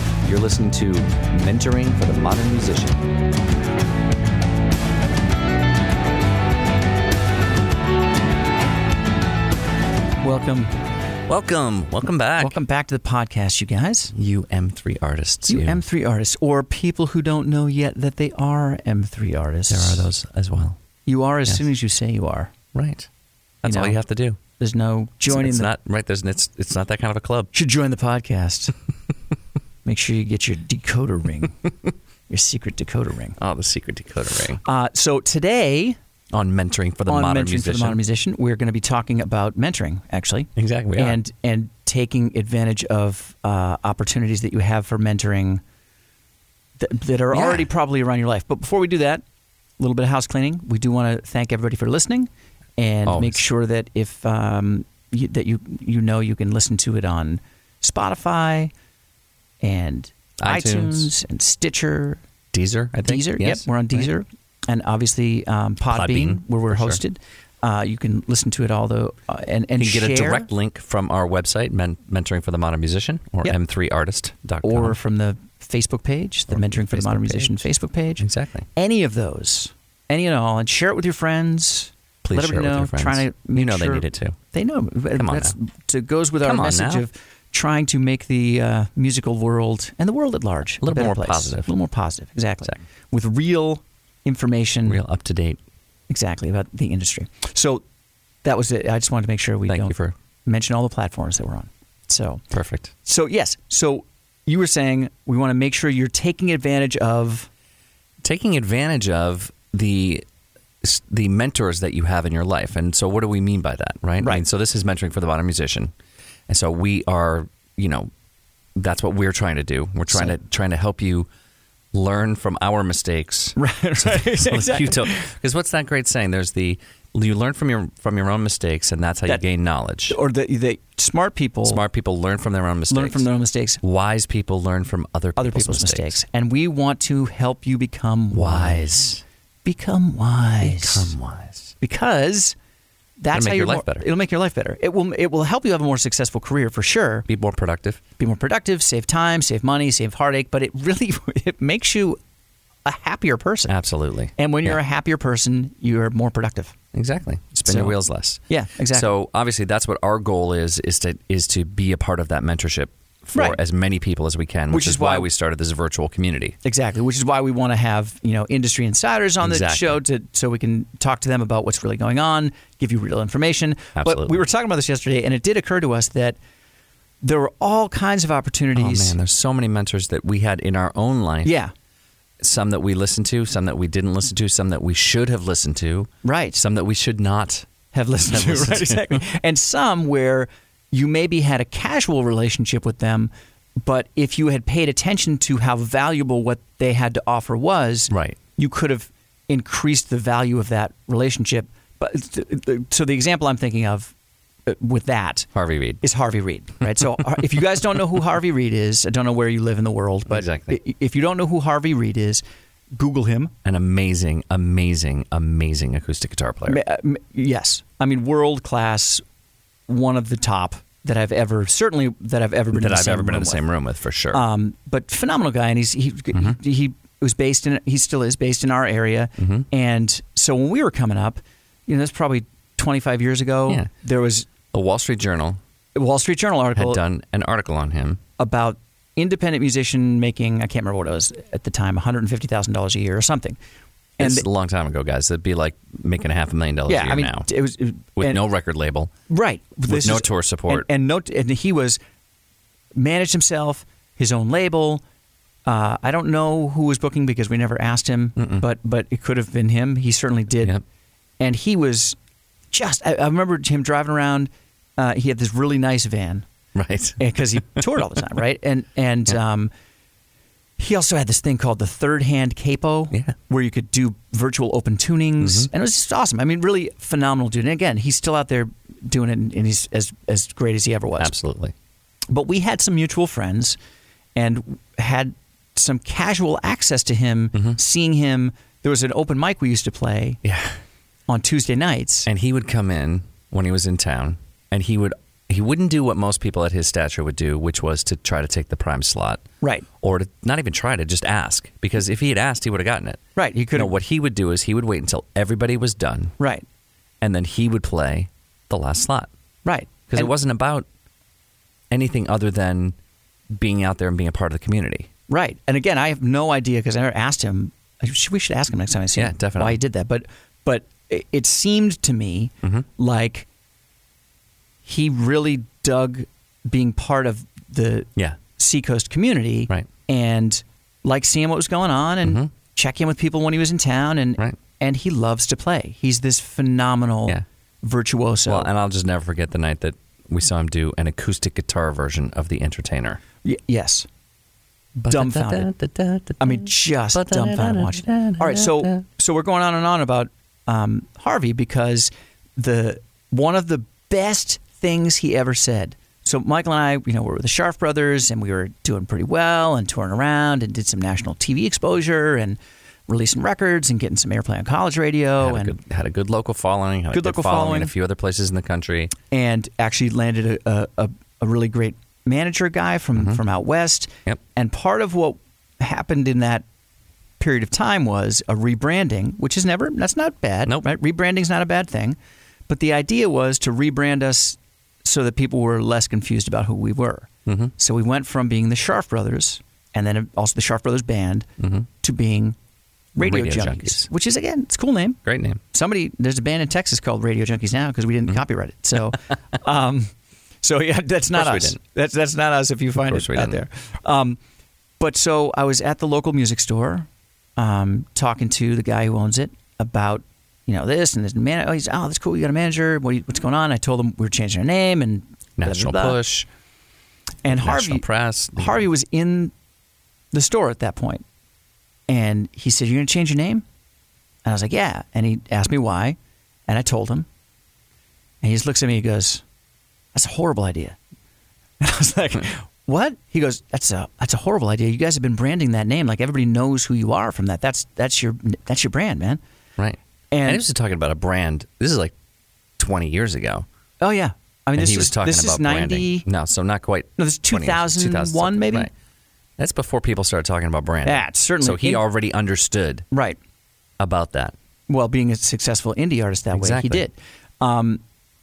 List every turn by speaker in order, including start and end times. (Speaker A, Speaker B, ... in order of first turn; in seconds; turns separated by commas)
Speaker A: 0.2-3.1, Speaker B: 10.2-10.7, Speaker A: 11.3-12.6, Speaker B: 12.4-14.1, Speaker A: 14.1-15.8, Speaker B: 15.5-20.1, Speaker A: 19.7-20.8, Speaker B: 21.1-22.5, Speaker A: 22.7-23.1, Speaker A: 23.6-24.4, Speaker B: 23.6-24.0, Speaker B: 24.6-25.7, Speaker A: 25.3-27.5, Speaker B: 27.5-28.7, Speaker B: 29.8-31.6, Speaker B: 32.3-33.4, Speaker A: 33.4-34.6, Speaker B: 34.6-36.0, Speaker A: 36.3-38.0, Speaker B: 37.1-45.6, Speaker A: 40.5-41.2, Speaker B: 46.8-49.2, Speaker A: 47.3-47.7, Speaker B: 49.8-58.7, Speaker A: 53.0-53.4, Speaker B: 59.6-62.2, Speaker A: 60.4-61.1, Speaker A: 62.5-64.1, Speaker B: 63.0-70.5, Speaker A: 65.9-67.0, Speaker A: 69.8-75.0, Speaker B: 74.6-78.2, Speaker A: 76.5-77.7, Speaker A: 78.2-78.7, Speaker B: 78.8-95.0, Speaker A: 82.2-84.4, Speaker A: 85.2-85.5, Speaker A: 86.4-87.0, Speaker A: 90.8-91.7, Speaker A: 94.8-95.6, Speaker B: 96.1-97.8, Speaker B: 98.4-102.4, Speaker A: 99.7-100.1, Speaker A: 102.5-102.9, Speaker B: 103.0-107.5, Speaker A: 108.2-110.2, Speaker A: 110.8-115.9, Speaker B: 114.2-114.4, Speaker A: 116.5-118.1, Speaker A: 118.8-121.3, Speaker B: 120.1-120.4, Speaker A: 121.9-130.2, Speaker B: 123.5-125.3, Speaker B: 130.1-131.8, Speaker A: 131.6-133.3, Speaker B: 132.9-133.8, Speaker A: 133.8-136.2, Speaker B: 135.4-139.1, Speaker A: 138.3-139.2, Speaker B: 139.6-141.1, Speaker A: 140.6-141.7, Speaker B: 141.8-142.6, Speaker B: 143.2-147.3, Speaker A: 143.3-144.1, Speaker A: 147.3-148.0, Speaker B: 148.2-152.2, Speaker B: 152.8-153.8, Speaker A: 153.7-154.8, Speaker B: 154.4-156.7, Speaker A: 156.9-166.6, Speaker B: 157.6-158.0, Speaker B: 158.5-159.1, Speaker B: 164.7-165.3, Speaker B: 166.6-176.4, Speaker A: 169.4-170.0, Speaker A: 174.0-174.4, Speaker B: 177.2-179.2, Speaker A: 178.7-181.5, Speaker B: 181.4-181.7, Speaker A: 182.4-187.7, Speaker B: 186.2-186.6, Speaker B: 187.9-193.3, Speaker A: 188.3-189.2, Speaker B: 193.8-204.1, Speaker A: 198.1-198.4, Speaker B: 204.7-205.5, Speaker A: 205.5-206.0, Speaker B: 206.0-212.4, Speaker A: 210.3-210.8, Speaker B: 212.9-213.5, Speaker A: 213.6-216.8, Speaker B: 216.7-219.2, Speaker B: 219.9-223.6, Speaker A: 222.7-224.4, Speaker B: 224.3-234.5, Speaker A: 229.4-229.7, Speaker A: 234.7-235.6, Speaker B: 235.9-237.0, Speaker A: 236.7-238.2, Speaker B: 238.4-243.6, Speaker B: 244.2-244.4, Speaker A: 244.2-247.5, Speaker B: 246.9-248.4, Speaker A: 248.2-249.1, Speaker B: 249.3-252.0, Speaker A: 249.9-250.9, Speaker B: 252.9-255.0, Speaker B: 255.7-260.8, Speaker A: 258.4-258.6, Speaker B: 261.4-262.2, Speaker B: 262.7-266.4, Speaker A: 266.7-267.2, Speaker B: 267.2-269.7, Speaker B: 270.8-281.3, Speaker A: 275.4-275.7, Speaker A: 281.2-281.7, Speaker B: 282.3-283.8, Speaker B: 284.4-290.4, Speaker A: 290.4-290.8, Speaker B: 291.3-292.3, Speaker A: 292.3-299.4, Speaker A: 300.0-303.2, Speaker B: 303.4-303.9, Speaker A: 303.7-306.3, Speaker B: 306.4-306.6, Speaker A: 307.2-309.3, Speaker B: 309.6-310.3, Speaker A: 310.1-310.9, Speaker A: 311.9-313.0, Speaker A: 313.5-315.1, Speaker B: 315.3-323.5, Speaker A: 319.1-319.8, Speaker B: 324.8-338.7, Speaker A: 332.2-332.5, Speaker A: 338.5-343.2, Speaker B: 343.4-344.1, Speaker A: 345.0-349.0, Speaker B: 345.1-345.7, Speaker B: 346.4-365.8, Speaker A: 365.4-369.1, Speaker B: 367.1-367.9, Speaker B: 369.3-376.6, Speaker B: 377.4-382.2, Speaker B: 382.7-391.5, Speaker A: 387.4-387.7, Speaker A: 391.6-391.9, Speaker B: 392.0-392.6, Speaker B: 393.1-395.2, Speaker A: 393.2-394.1, Speaker A: 395.2-395.6, Speaker B: 395.7-400.1, Speaker B: 400.6-404.4, Speaker A: 401.3-401.8, Speaker A: 403.1-403.6, Speaker B: 405.0-416.2, Speaker A: 415.6-416.5, Speaker B: 417.4-418.0, Speaker A: 417.5-418.8, Speaker B: 418.6-419.5, Speaker B: 420.3-421.2, Speaker B: 422.1-423.6, Speaker B: 424.4-426.2, Speaker B: 426.7-427.2, Speaker B: 428.4-429.4, Speaker B: 430.1-431.0, Speaker B: 431.8-439.4, Speaker A: 439.8-442.1, Speaker B: 440.3-440.6, Speaker A: 442.8-443.6, Speaker B: 444.0-446.2, Speaker A: 444.8-448.9, Speaker B: 447.2-448.9, Speaker A: 449.6-453.1, Speaker B: 451.0-452.0, Speaker B: 453.1-453.4, Speaker A: 454.0-454.5, Speaker B: 454.9-458.0, Speaker A: 456.5-457.1